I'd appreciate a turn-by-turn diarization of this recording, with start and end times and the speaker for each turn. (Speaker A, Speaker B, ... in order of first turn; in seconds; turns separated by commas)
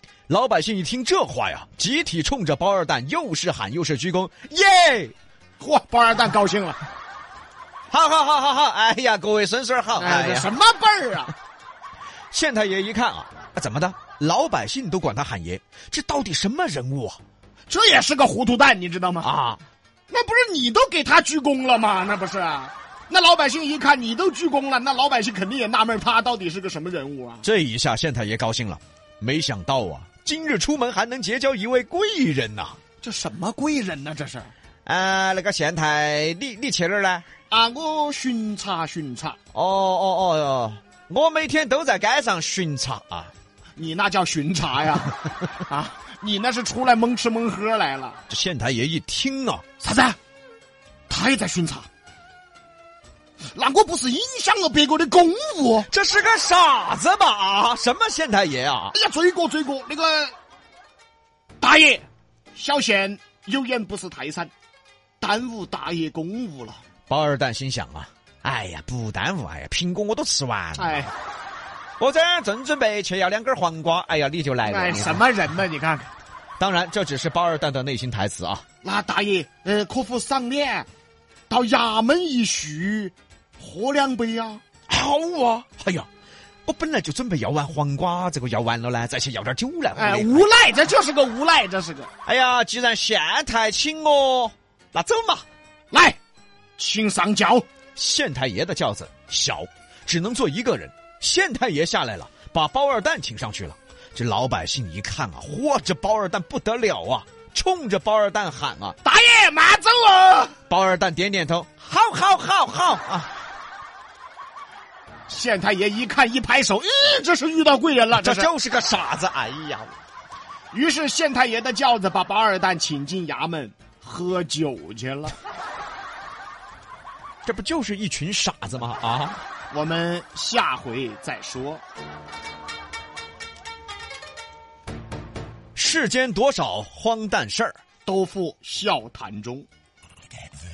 Speaker A: 0.3-5.1, Speaker B: 5.6-6.8, Speaker A: 7.9-10.5, Speaker B: 10.0-11.3, Speaker A: 12.3-17.2, Speaker B: 17.7-19.3, Speaker A: 19.2-19.6, Speaker B: 20.1-27.4, Speaker A: 27.4-32.8, Speaker B: 33.0-34.5, Speaker A: 34.9-37.2, Speaker B: 37.5-39.4, Speaker A: 39.5-43.3, Speaker B: 43.8-48.2, Speaker A: 48.3-49.6, Speaker B: 49.8-50.2, Speaker B: 51.1-51.9, Speaker B: 53.5-55.9, Speaker A: 55.9-58.9, Speaker B: 58.9-60.3, Speaker B: 61.6-64.5, Speaker B: 65.2-66.8, Speaker A: 67.1-71.1, Speaker B: 70.8-71.1, Speaker A: 72.0-75.2, Speaker B: 74.6-76.1, Speaker A: 76.6-78.6, Speaker B: 78.8-80.9, Speaker B: 81.5-84.6, Speaker A: 84.9-86.1, Speaker A: 86.6-90.5, Speaker B: 90.0-92.1, Speaker A: 92.2-95.4, Speaker B: 95.9-96.2, Speaker B: 96.8-97.7, Speaker A: 98.0-109.0, Speaker B: 109.0-110.5, Speaker A: 110.7-113.3, Speaker B: 115.3-118.5, Speaker A: 118.2-120.0, Speaker B: 120.7-125.3, Speaker A: 127.4-129.4, Speaker B: 129.7-131.8, Speaker A: 135.8-137.8, Speaker B: 138.1-139.7